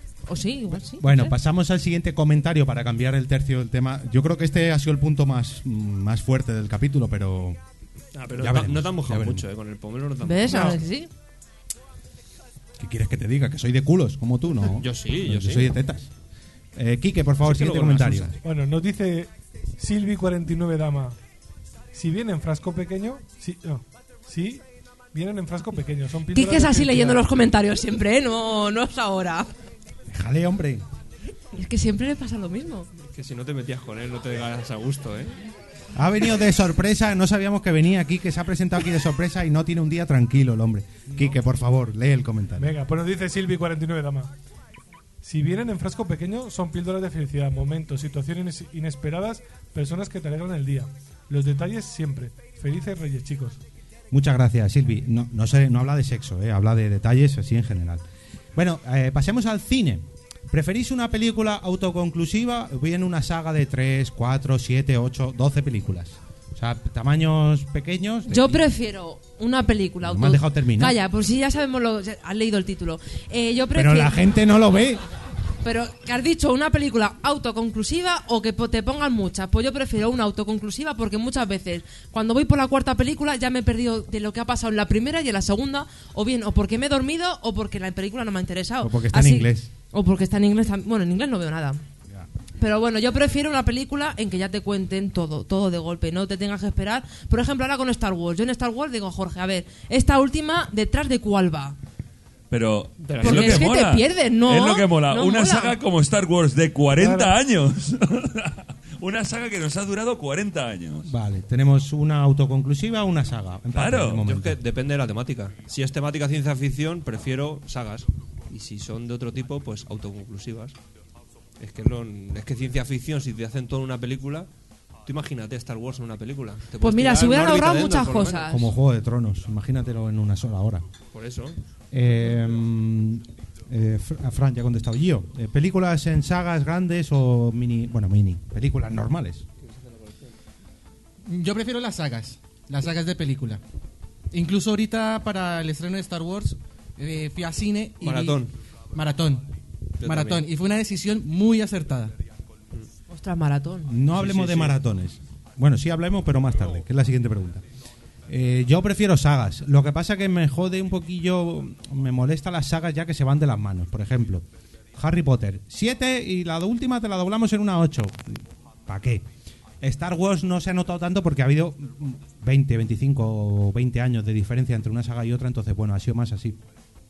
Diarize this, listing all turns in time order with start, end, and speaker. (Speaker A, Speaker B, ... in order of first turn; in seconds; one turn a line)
Speaker A: 0.3-1.4
Speaker B: 0.9-7.6
Speaker C: 8.2-10.8
Speaker B: 8.4-9.4
Speaker A: 10.2-11.1
Speaker B: 12.8-16.1
Speaker C: 14.8-15.7
Speaker B: 16.8-18.3
Speaker C: 17.4-18.3
Speaker D: 18.4-21.2
Speaker D: 21.9-27.2
Speaker A: 26.3-29.5
Speaker B: 30.1-30.8
Speaker A: 31.5-32.9
Speaker C: 33.0-35.4
Speaker B: 36.0-42.8
Speaker D: 42.6-44.3
Speaker D: 45.2-53.6
Speaker B: 54.1-58.0
Speaker B: 58.5-68.6
Speaker A: 68.3-74.2
Speaker B: 70.0-71.0
Speaker B: 73.7-75.0
Speaker A: 75.6-91.8
Speaker B: 88.8-89.7
Speaker A: 92.6-101.8
Speaker E: 102.5-111.1
Speaker C: 103.0-103.7
Speaker A: 103.2-105.7
Speaker D: 107.0-107.3
Speaker B: 111.1-114.6
Speaker E: 113.7-114.2
Speaker C: 114.2-120.8
Speaker C: 121.6-124.5
Speaker C: 125.0-128.5
Speaker A: 126.8-128.7
Speaker B: 128.5-130.9
Speaker C: 131.1-131.6
Speaker B: 131.9-139.4
Speaker C: 139.7-140.2
Speaker F: 141.2-143.6
Speaker F: 144.3-149.5
Speaker C: 148.0-148.5
Speaker C: 150.0-150.4
Speaker F: 150.0-152.1
Speaker A: 153.1-154.0
Speaker B: 153.9-157.6
Speaker C: 154.2-154.8
Speaker B: 158.3-169.3
Speaker B: 169.8-176.6